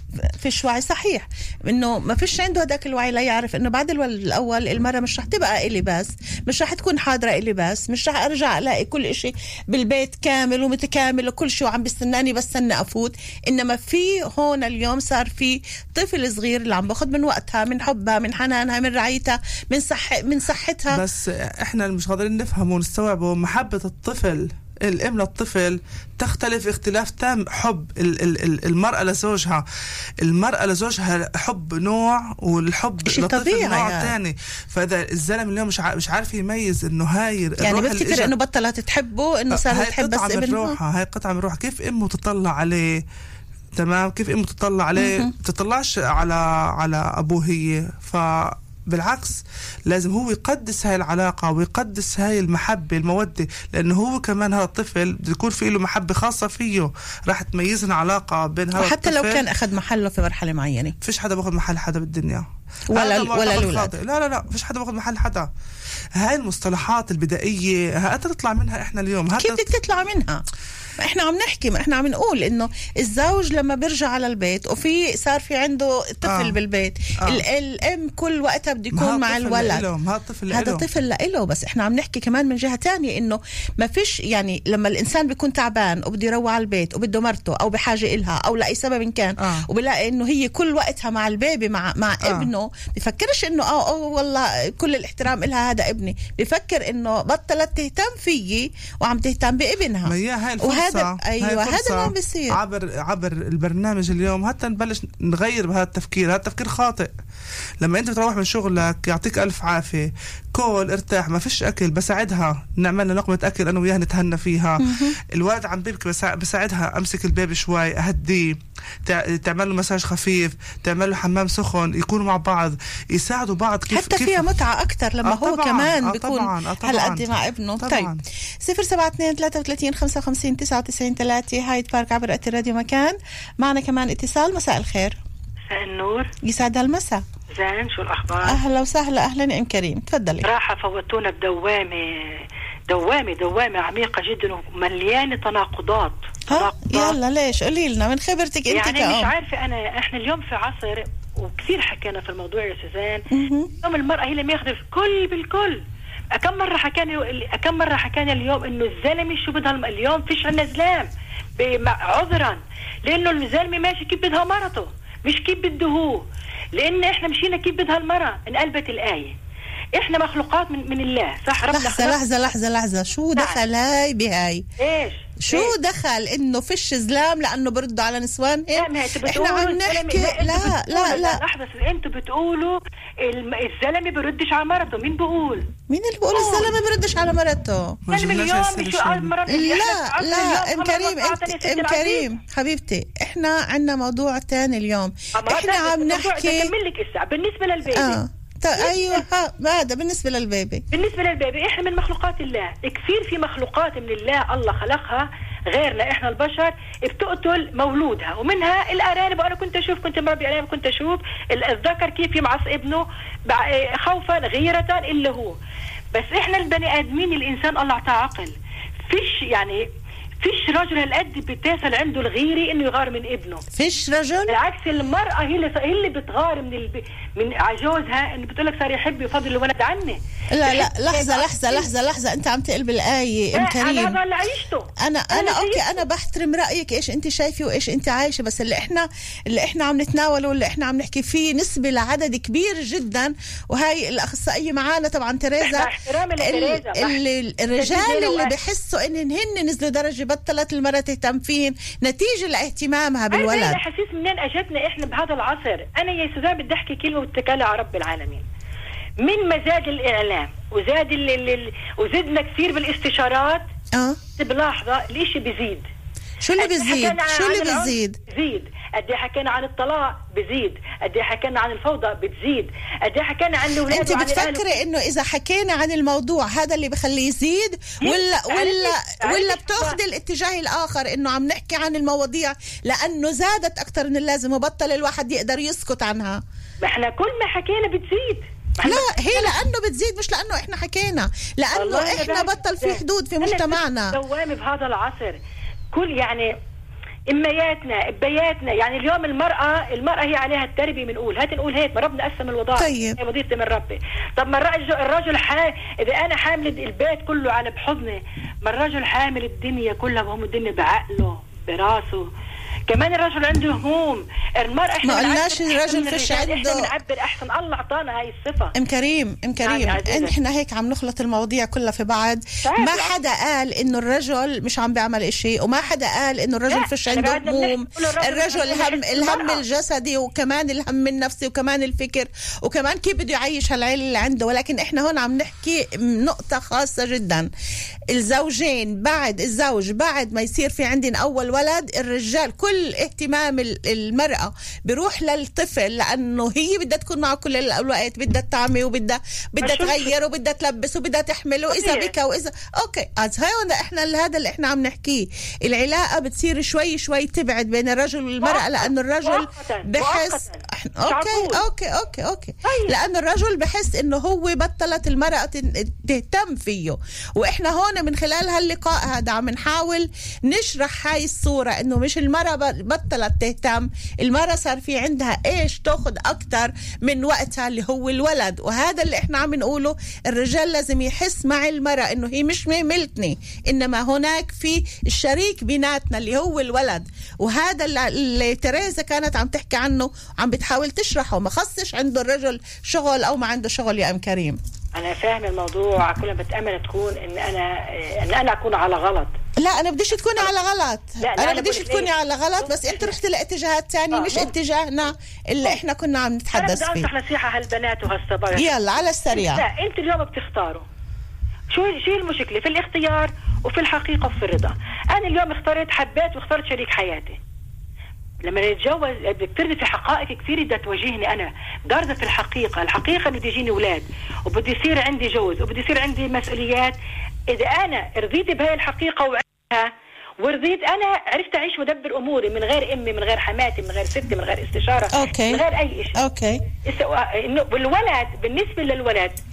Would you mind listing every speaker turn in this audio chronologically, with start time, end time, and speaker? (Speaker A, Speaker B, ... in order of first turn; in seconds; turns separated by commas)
Speaker A: 0.4-21.0, Speaker B: 20.9-29.6, Speaker B: 30.2-38.3, Speaker A: 33.1-34.1, Speaker A: 37.6-40.8, Speaker B: 39.5-43.0, Speaker B: 43.8-59.4, Speaker A: 45.0-45.3, Speaker A: 58.8-60.9, Speaker B: 61.0-65.5, Speaker A: 62.9-63.9, Speaker B: 66.2-69.7, Speaker A: 69.4-70.4, Speaker A: 71.0-79.8, Speaker B: 76.2-76.6, Speaker B: 78.9-80.9, Speaker A: 80.5-102.6, Speaker B: 100.0-107.1, Speaker B: 107.8-124.5, Speaker A: 114.8-115.1, Speaker A: 123.9-128.1, Speaker B: 125.2-128.2, Speaker A: 128.6-135.2, Speaker C: 135.7-136.3, Speaker A: 136.4-137.2, Speaker C: 137.5-138.6, Speaker A: 138.4-140.5, Speaker C: 140.4-147.2, Speaker A: 146.5-149.3, Speaker C: 148.7-153.2, Speaker A: 153.3-153.7, Speaker C: 153.8-155.8, Speaker C: 156.3-166.2, Speaker C: 166.8-169.3, Speaker C: 169.9-172.2, Speaker A: 171.7-174.6, Speaker C: 173.4-173.6, Speaker C: 174.8-175.7, Speaker A: 175.4-181.4, Speaker C: 178.7-185.7, Speaker A: 185.9-188.0, Speaker C: 186.3-186.7, Speaker B: 188.1-189.4, Speaker C: 188.1-192.4, Speaker A: 189.5-196.7, Speaker C: 195.4-198.2, Speaker A: 197.9-200.8, Speaker C: 198.8-199.2, Speaker C: 200.9-215.6, Speaker C: 216.1-218.5, Speaker C: 219.1-219.8, Speaker C: 220.4-223.6, Speaker A: 223.8-224.5, Speaker C: 224.5-231.9, Speaker A: 230.5-234.2, Speaker C: 233.5-236.0, Speaker A: 235.0-253.8, Speaker C: 245.6-247.2, Speaker C: 247.8-248.5, Speaker C: 253.3-258.4, Speaker C: 259.2-263.6, Speaker C: 264.4-265.9, Speaker A: 266.4-268.2, Speaker C: 266.6-274.8, Speaker A: 273.9-286.4, Speaker C: 278.0-280.0, Speaker C: 286.8-289.6, Speaker A: 288.8-294.2, Speaker C: 291.7-295.4, Speaker C: 295.9-296.5, Speaker C: 297.3-312.3, Speaker A: 302.8-303.2, Speaker C: 312.9-318.7, Speaker A: 315.0-316.9, Speaker A: 318.8-337.5, Speaker C: 319.6-320.4, Speaker C: 322.6-323.2, Speaker C: 326.7-329.6, Speaker A: 338.1-394.6, Speaker C: 349.6-350.1, Speaker C: 351.7-352.1, Speaker C: 358.4-361.6, Speaker C: 362.6-363.0, Speaker C: 394.9-399.3, Speaker A: 399.6-407.1, Speaker C: 401.2-403.1, Speaker C: 404.1-404.5, Speaker C: 406.5-408.8, Speaker A: 408.5-409.6, Speaker C: 409.3-410.9, Speaker C: 411.7-417.4, Speaker C: 418.4-427.0, Speaker C: 427.5-436.2, Speaker A: 435.1-435.6, Speaker A: 436.2-436.6, Speaker C: 436.9-439.4